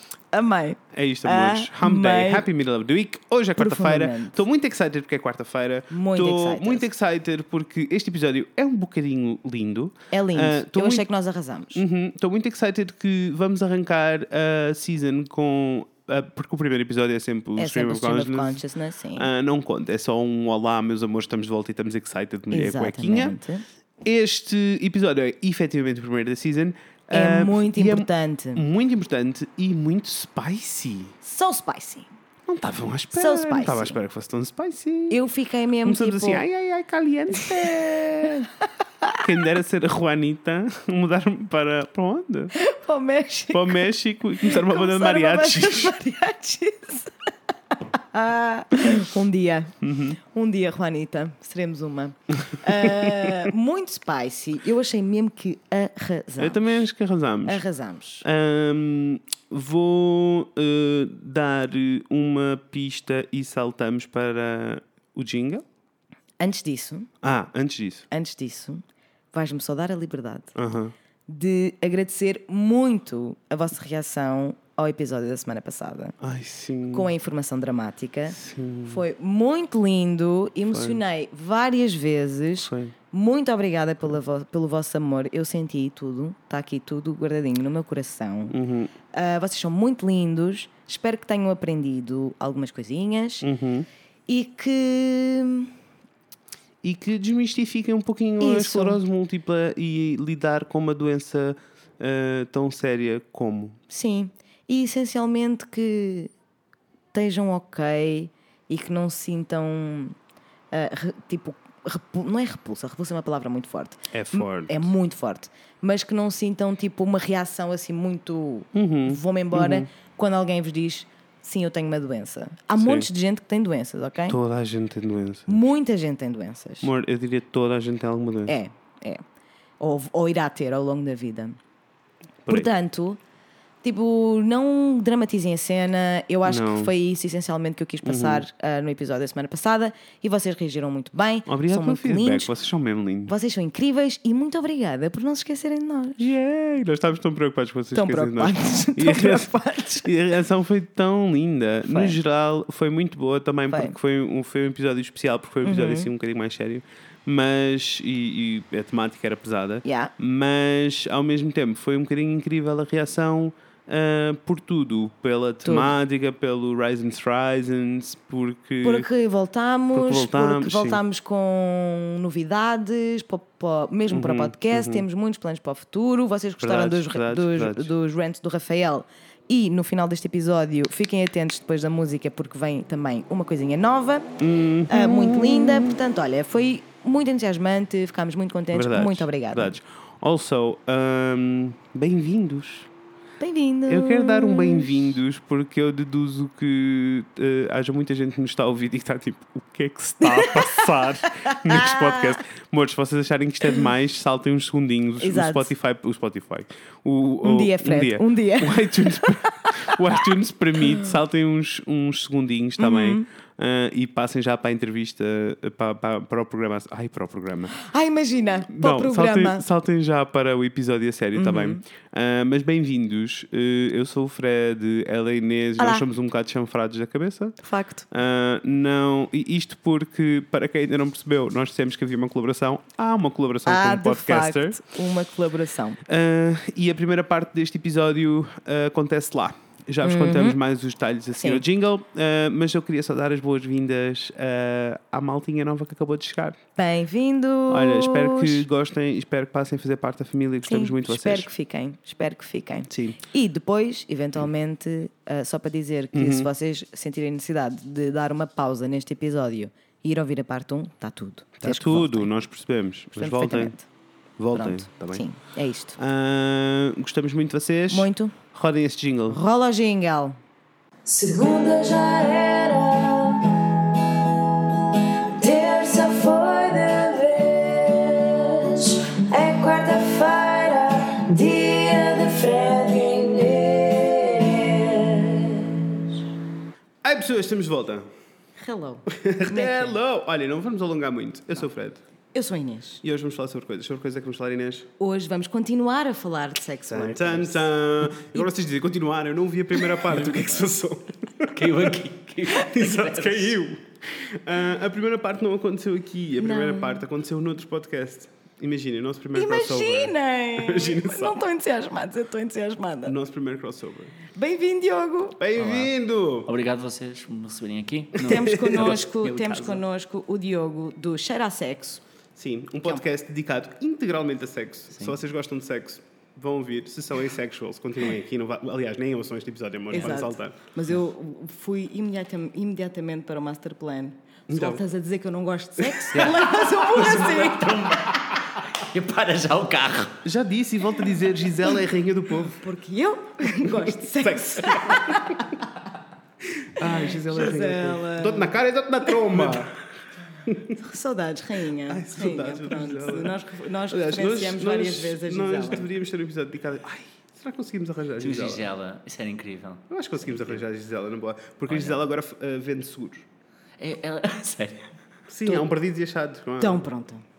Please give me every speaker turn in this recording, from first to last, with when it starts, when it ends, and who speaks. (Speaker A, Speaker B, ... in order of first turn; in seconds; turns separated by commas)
Speaker A: 0.3-2.5, Speaker B: 0.9-11.1, Speaker A: 3.6-4.4, Speaker A: 5.9-6.9, Speaker A: 10.1-11.8, Speaker B: 11.7-18.6, Speaker A: 17.6-19.3, Speaker B: 19.2-23.4, Speaker A: 22.5-23.6, Speaker B: 24.0-31.1, Speaker A: 27.1-28.6, Speaker A: 31.2-32.1, Speaker B: 32.5-35.2, Speaker A: 33.1-34.0, Speaker A: 35.1-36.5, Speaker B: 35.8-38.4, Speaker A: 37.3-39.2, Speaker B: 39.2-42.5, Speaker A: 42.5-47.1, Speaker B: 43.5-46.0, Speaker A: 47.8-56.9, Speaker B: 49.8-50.2, Speaker B: 56.4-57.6, Speaker A: 57.5-58.2, Speaker B: 58.2-65.6, Speaker A: 66.4-67.1, Speaker B: 67.2-68.1, Speaker A: 68.1-70.5, Speaker B: 70.5-70.9, Speaker A: 71.3-76.2, Speaker B: 76.2-77.1, Speaker A: 76.9-88.6, Speaker B: 78.3-79.0, Speaker B: 80.7-81.0, Speaker B: 82.6-82.9, Speaker B: 88.5-88.9, Speaker A: 89.1-93.5, Speaker B: 93.4-93.9, Speaker A: 94.3-95.7, Speaker B: 96.8-103.8, Speaker A: 98.4-99.0, Speaker A: 103.9-106.3, Speaker A: 107.1-110.2, Speaker A: 110.7-124.4, Speaker B: 114.1-114.9, Speaker B: 118.7-119.9, Speaker B: 122.8-123.1, Speaker B: 124.3-125.6, Speaker A: 125.5-126.9, Speaker B: 126.8-128.6, Speaker A: 128.5-129.2, Speaker A: 129.8-131.6, Speaker A: 132.5-133.2, Speaker A: 133.8-142.5, Speaker B: 136.4-136.9, Speaker B: 138.1-138.4, Speaker B: 141.5-143.3, Speaker A: 143.3-146.3, Speaker B: 146.2-149.5, Speaker A: 147.9-150.1, Speaker B: 150.0-169.1, Speaker A: 151.9-152.2, Speaker A: 155.6-156.1, Speaker A: 159.8-160.1, Speaker A: 165.6-165.9, Speaker A: 168.8-184.3, Speaker B: 169.9-171.0, Speaker B: 174.1-175.1, Speaker B: 176.6-177.9, Speaker B: 184.4-185.9, Speaker A: 184.9-189.7, Speaker B: 188.7-192.9, Speaker A: 193.4-195.1, Speaker B: 193.9-217.8, Speaker A: 200.2-200.9, Speaker A: 201.5-202.4, Speaker A: 205.2-205.7, Speaker A: 207.4-210.2, Speaker A: 210.8-211.2, Speaker A: 212.8-213.3, Speaker A: 217.8-219.6, Speaker B: 218.7-227.6, Speaker A: 221.4-221.8, Speaker A: 225.8-226.0, Speaker A: 227.6-228.1, Speaker B: 228.1-234.8, Speaker A: 233.7-236.0, Speaker B: 236.1-246.6, Speaker A: 240.0-240.6, Speaker A: 241.4-241.6, Speaker A: 246.8-248.7, Speaker B: 247.7-251.5, Speaker A: 250.7-262.3, Speaker B: 252.9-253.2, Speaker B: 256.1-256.5, Speaker B: 261.6-263.8, Speaker A: 263.1-263.9, Speaker B: 264.4-265.2, Speaker A: 264.5-266.0, Speaker B: 266.0-269.4, Speaker A: 267.9-268.4, Speaker A: 269.3-270.4, Speaker C: 271.1-273.2, Speaker C: 275.5-277.8, Speaker A: 279.4-280.0, Speaker C: 279.5-283.6, Speaker A: 282.3-282.6, Speaker B: 287.0-288.1, Speaker A: 288.6-290.0, Speaker B: 289.1-292.0, Speaker A: 292.3-293.0, Speaker B: 293.0-294.9, Speaker A: 295.0-297.7, Speaker B: 296.9-301.9, Speaker A: 298.2-298.5, Speaker D: 301.5-303.6, Speaker B: 302.5-311.4, Speaker A: 306.4-307.1, Speaker A: 309.3-313.2, Speaker B: 313.1-314.2, Speaker A: 314.3-315.4, Speaker B: 315.4-316.5, Speaker D: 315.6-319.8, Speaker B: 318.2-319.0, Speaker A: 318.2-322.0, Speaker B: 322.4-330.6, Speaker A: 329.9-338.2, Speaker B: 334.5-334.8, Speaker D: 336.1-340.2, Speaker B: 340.2-342.6, Speaker A: 342.5-345.5, Speaker B: 344.1-345.5, Speaker B: 346.6-349.8, Speaker A: 346.8-348.6, Speaker B: 350.4-350.8, Speaker A: 350.8-355.9, Speaker B: 351.9-353.4, Speaker B: 353.9-358.7, Speaker D: 358.2-360.6, Speaker B: 359.9-363.3, Speaker D: 361.7-362.0, Speaker D: 363.8-364.9, Speaker B: 365.3-366.9, Speaker A: 366.6-367.2